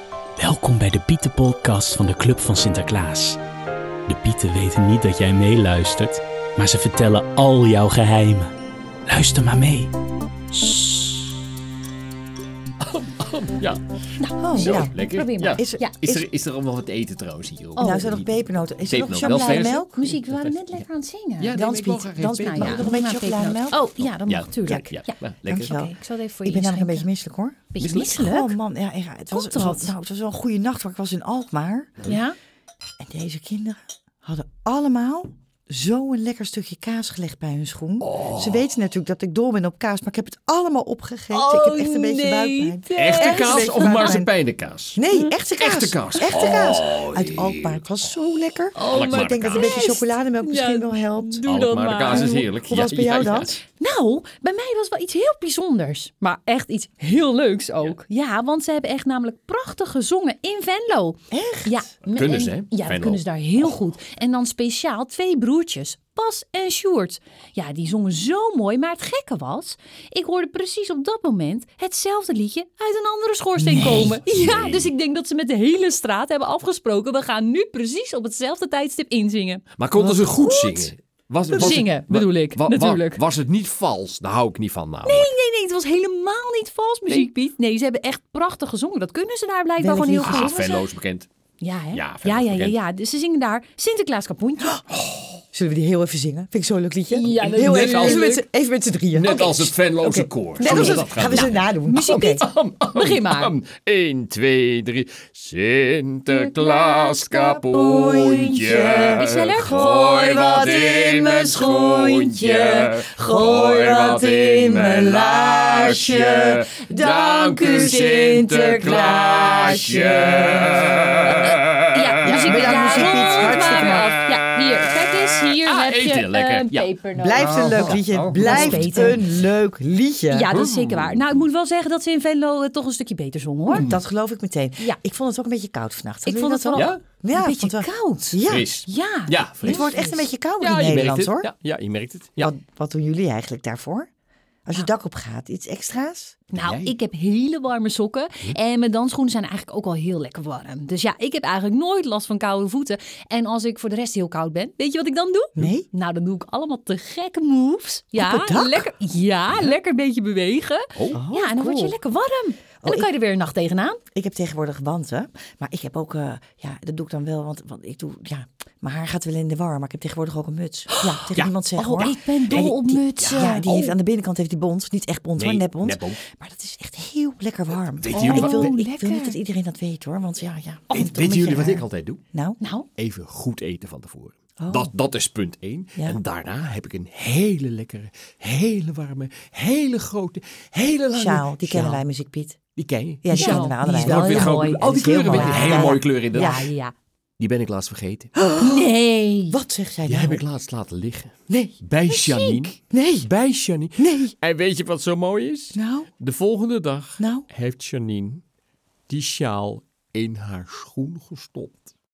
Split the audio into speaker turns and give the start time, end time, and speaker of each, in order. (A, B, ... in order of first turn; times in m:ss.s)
0:00.4-0:03.4 A
0:04.1-0:08.5 A
0:09.1-0:09.9 A
0:10.5-0:11.1 A
0:12.8-0:13.8 B
0:14.2-0:16.0 C
0:14.4-0:16.2 D
0:14.6-0:20.9 B
0:17.8-0:18.2 C
0:17.8-0:20.0 D
0:19.4-0:21.7 C
0:21.4-0:22.9 B
0:21.5-0:23.9 D
0:22.3-0:27.1 C
0:24.3-0:25.7 B
0:24.7-0:24.9 D
0:25.5-0:25.9 D
0:26.4-0:32.1 D
0:27.7-0:28.6 C
0:29.3-0:29.9 C
0:32.1-0:32.4 C
0:33.0-0:44.3 D
0:38.0-0:38.6 B
0:41.3-0:44.2 C
0:43.0-0:45.0 B
0:45.0-0:51.4 D
0:45.5-0:47.9 B
0:48.8-0:52.5 C
0:48.8-0:49.8 B
0:51.4-0:53.6 B
0:52.1-0:53.6 D
0:53.8-1:20.9 C
1:01.3-1:01.9 D
1:02.1-1:03.8 B
1:13.6-1:14.2 D
1:14.3-1:14.9 B
1:19.8-1:25.3 B
1:21.5-1:23.2 C
1:25.0-1:30.9 C
1:29.8-1:30.7 D
1:30.2-1:31.3 B
1:31.6-1:34.8 C
1:31.9-1:32.8 B
1:35.5-1:42.4 D
1:37.1-1:38.4 C
1:37.3-1:38.4 B
1:39.1-1:41.7 B
1:40.6-1:43.5 C
1:42.3-2:02.8 B
1:46.3-2:00.7 C
1:48.4-1:49.2 D
2:01.2-2:09.2 C
2:02.2-2:04.2 D
2:05.6-2:09.3 B
2:07.2-2:10.5 D
2:10.3-2:13.9 C
2:10.5-2:11.4 B
2:13.7-2:18.7 D
2:13.7-2:14.0 B
2:16.2-2:20.2 C
2:16.7-2:17.0 B
2:18.5-2:20.0 B
2:19.6-2:21.5 D
2:20.6-2:22.5 B
2:22.4-2:24.1 D
2:24.6-2:26.4 D
2:26.5-2:44.0 C
2:26.6-2:26.9 B
2:35.6-2:35.9 D
2:38.2-2:38.9 D
2:41.0-2:41.2 B
2:41.1-2:42.0 D
2:42.8-2:43.1 D
2:44.1-3:02.6 D
2:51.3-2:53.6 B
2:51.8-2:54.0 C
2:55.4-2:56.2 B
2:58.0-2:58.7 B
2:58.2-2:59.4 C
3:00.9-3:02.2 B
3:02.6-3:02.9 C
3:03.0-3:12.0 B
3:04.6-3:04.9 D
3:11.1-3:12.6 D
3:12.8-3:16.7 B
3:13.2-3:16.6 D
3:13.3-3:17.0 C
3:17.4-3:18.4 B
3:18.4-3:18.9 D
3:18.6-3:19.6 C
3:19.5-3:20.4 D
3:20.1-3:28.4 B
3:21.5-3:21.8 D
3:22.1-3:22.7 C
3:22.9-3:23.3 D
3:24.0-3:24.3 D
3:25.7-3:26.1 D
3:27.2-3:27.5 D
3:29.1-3:31.8 B